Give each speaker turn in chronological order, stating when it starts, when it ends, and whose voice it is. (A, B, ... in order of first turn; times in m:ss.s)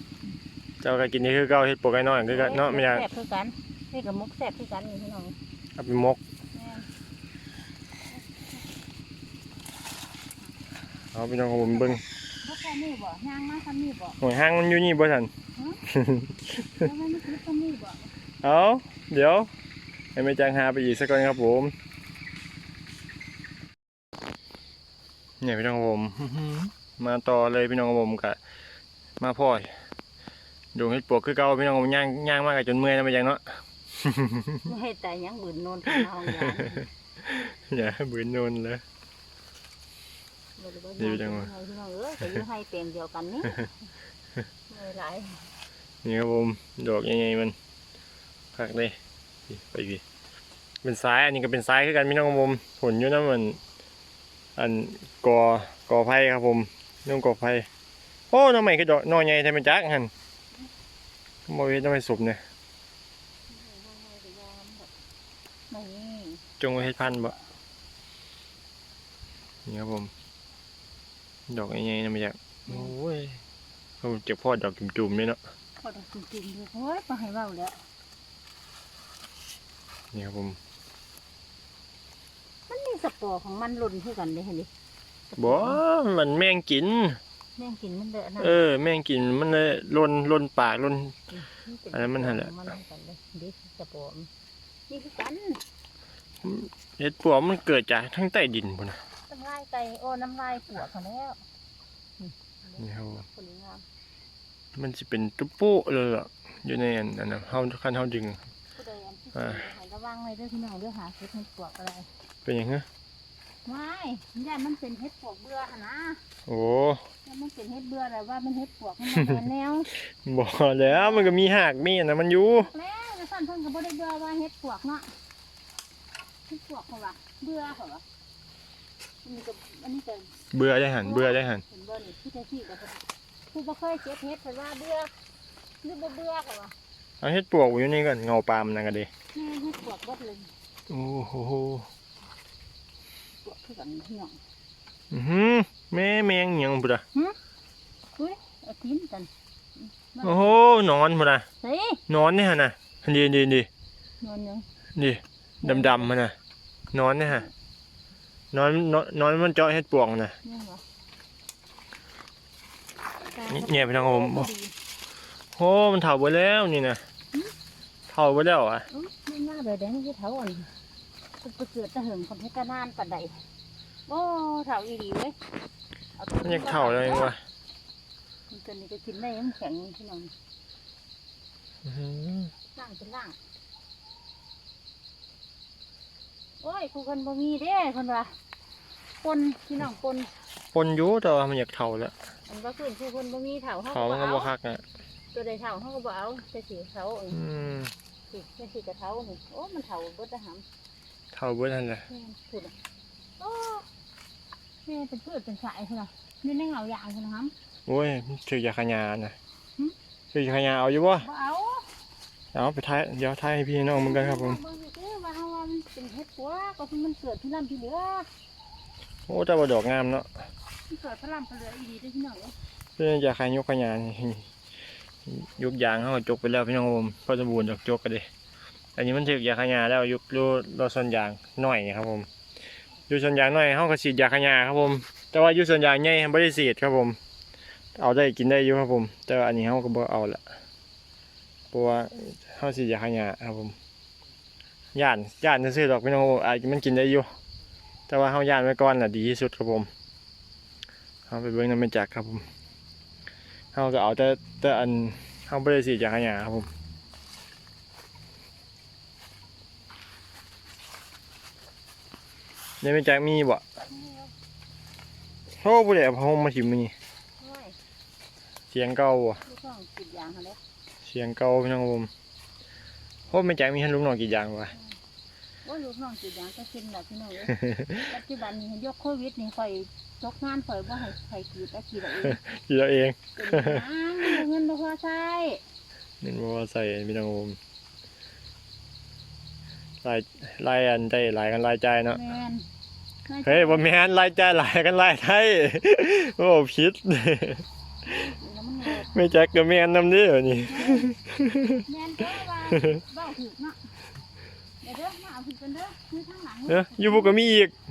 0:00.8-0:03.1 A
0:02.3-0:05.4 B
0:05.8-0:06.2 A
0:06.5-0:06.9 B
0:08.1-0:08.7 B
0:11.1-0:12.0 A
0:11.6-0:14.2 B
0:14.2-0:15.3 A
0:15.6-0:15.8 B
0:15.9-0:16.8 A
0:16.7-0:18.1 B
0:18.4-0:19.5 A
0:20.2-0:21.7 A
0:25.4-0:28.4 A
0:29.2-0:29.7 A
0:30.7-0:34.7 A
0:34.6-0:36.9 B
0:35.9-0:38.8 A
0:40.6-0:43.7 B
0:41.0-0:41.5 A
0:44.7-0:45.5 B
0:46.0-0:47.6 A
0:48.5-0:49.0 A
0:49.5-0:50.0 A
0:50.8-0:53.6 A
0:54.6-0:57.7 A
0:58.3-1:00.1 A
1:01.5-1:02.4 A
1:03.5-1:04.9 B
1:05.7-1:06.4 B
1:06.6-1:07.3 A
1:09.7-1:10.1 A
1:11.5-1:13.4 A
1:14.0-1:15.4 A
1:15.8-1:17.8 B
1:20.1-1:20.6 A
1:22.7-1:24.7 B
1:25.3-1:25.8 B
1:25.4-1:27.2 A
1:27.6-1:28.6 B
1:28.4-1:31.3 A
1:31.3-1:34.3 B
1:31.9-1:32.5 A
1:34.9-1:35.6 B
1:36.4-1:39.0 A
1:39.3-1:41.4 B
1:42.2-1:43.8 B
1:42.8-1:43.3 A
1:44.8-1:48.4 A
1:48.8-1:52.1 B
1:49.3-1:49.7 A
1:52.4-1:52.9 A
1:53.6-1:56.2 B
1:56.5-1:57.1 A
1:57.2-1:59.9 B
2:00.0-2:02.7 A
2:00.9-2:01.4 B
2:02.6-2:05.2 B
2:06.5-2:08.0 B
2:09.2-2:10.4 B
2:10.5-2:11.6 A
2:11.0-2:15.1 B
2:15.8-2:16.8 B
2:17.2-2:19.1 A
2:19.3-2:20.5 B
2:20.9-2:21.9 A
2:23.4-2:24.4 B
2:25.1-2:27.0 A
2:28.2-2:30.6 B
2:30.2-2:31.5 A
2:31.6-2:32.0 B
2:32.1-2:33.7 A
2:34.2-2:34.7 B
2:35.0-2:36.4 A
2:35.6-2:36.1 B
2:36.9-2:37.5 A
2:38.5-2:40.4 A
2:40.4-2:40.8 B
2:43.2-2:44.8 B
2:43.5-2:44.5 A
2:45.6-2:47.0 A
2:48.1-2:48.9 A
2:48.9-2:50.7 B
2:51.4-2:53.5 B
2:54.1-2:55.4 B
2:56.2-2:57.3 B
2:56.4-2:57.4 A
2:58.5-3:00.3 B
3:01.8-3:02.5 A
3:02.7-3:03.4 B
3:06.6-3:08.4 B
3:09.2-3:10.3 B
3:10.7-3:12.1 A
3:12.5-3:14.5 B
3:13.9-3:14.8 A
3:15.3-3:17.4 B
3:17.3-3:17.9 A
3:18.3-3:20.7 B
3:21.3-3:22.1 A
3:22.1-3:22.8 B
3:23.4-3:23.9 B
3:24.8-3:27.5 B
3:27.9-3:29.4 A
3:30.3-3:31.3 A
3:31.2-3:31.9 B
3:32.5-3:34.6 A
3:33.9-3:38.3 B
3:39.3-3:40.3 A
3:40.9-3:42.6 B
3:43.0-3:44.5 A
3:45.3-3:48.3 A
3:49.0-3:52.3 A
3:53.1-3:57.2 A
3:58.0-4:00.4 A
4:01.7-4:03.8 A
4:04.9-4:07.3 A
4:08.1-4:09.9 A
4:11.3-4:12.4 A
4:13.7-4:16.7 A
4:22.8-4:23.6 A
4:23.9-4:24.3 B
4:25.5-4:27.0 A
4:27.4-4:27.8 B
4:28.7-4:29.4 A
4:29.5-4:30.6 B
4:31.0-4:32.1 A
4:33.3-4:34.8 A
4:35.6-4:42.4 B
4:37.5-4:38.1 A
4:42.2-4:44.4 A
4:43.4-4:45.6 B
4:46.2-4:47.6 A
4:50.0-4:52.2 A
4:52.1-4:52.7 B
4:53.3-4:53.9 B
4:53.4-4:57.6 A
4:58.0-4:59.1 B
4:58.9-5:01.9 A
5:00.7-5:01.2 B
5:01.8-5:04.0 B
5:02.7-5:03.0 A
5:04.8-5:07.4 B
5:06.7-5:07.7 A